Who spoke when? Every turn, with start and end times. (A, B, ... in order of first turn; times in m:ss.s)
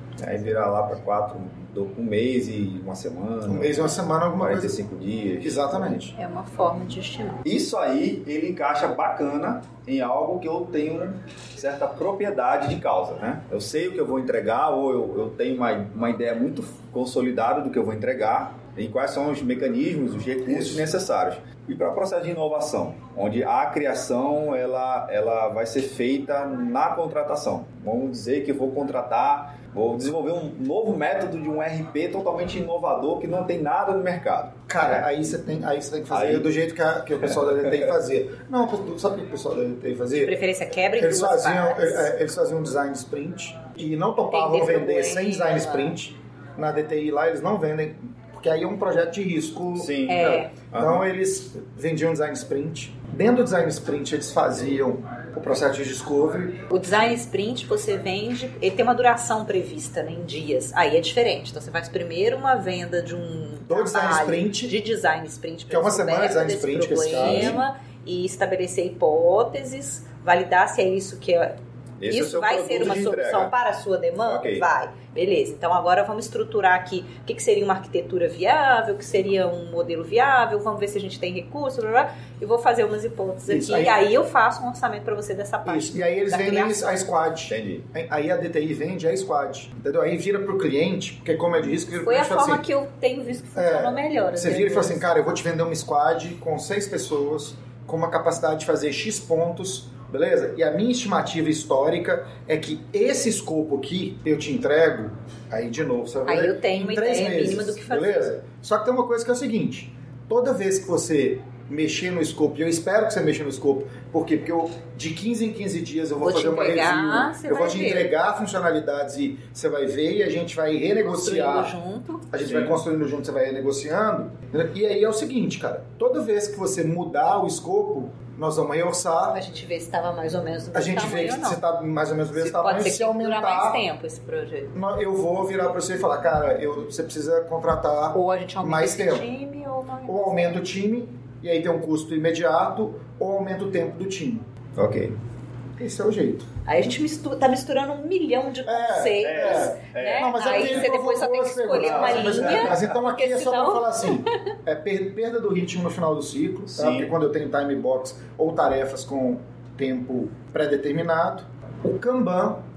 0:00.2-0:06.1 A
0:03.4-0:04.8 B
0:05.4-0:06.1 B
0:06.2-0:07.4 C
0:07.4-0:35.1 A
0:34.7-0:40.4 B
0:36.1-0:36.6 A
0:37.3-0:37.9 A
0:40.1-0:42.1 C
0:41.0-0:56.6 B
0:44.3-0:46.0 C
0:49.7-0:51.1 A
0:50.1-0:50.5 C
0:56.7-1:11.5 C
1:03.6-1:04.8 B
1:05.7-1:07.6 B
1:07.2-1:07.6 A
1:12.0-1:13.5 A
1:12.0-1:26.9 C
1:14.2-1:14.7 A
1:23.5-1:24.0 B
1:25.6-1:32.6 B
1:27.5-1:27.8 A
1:32.0-1:35.0 C
1:33.6-2:01.7 B
1:46.2-1:48.3 C
1:56.2-1:58.1 C
2:01.0-2:02.2 C
2:02.3-2:09.4 B
2:02.4-2:02.8 A
2:09.3-2:11.6 C
2:10.7-2:13.8 B
2:12.3-2:14.7 C
2:14.7-2:19.2 B
2:18.1-2:20.6 C
2:20.0-2:24.4 B
2:24.8-2:25.1 A
2:25.8-2:26.4 B
2:26.6-2:34.3 C
2:28.6-2:42.6 B
2:29.2-2:30.9 A
2:31.8-2:33.0 A
2:36.7-2:37.1 A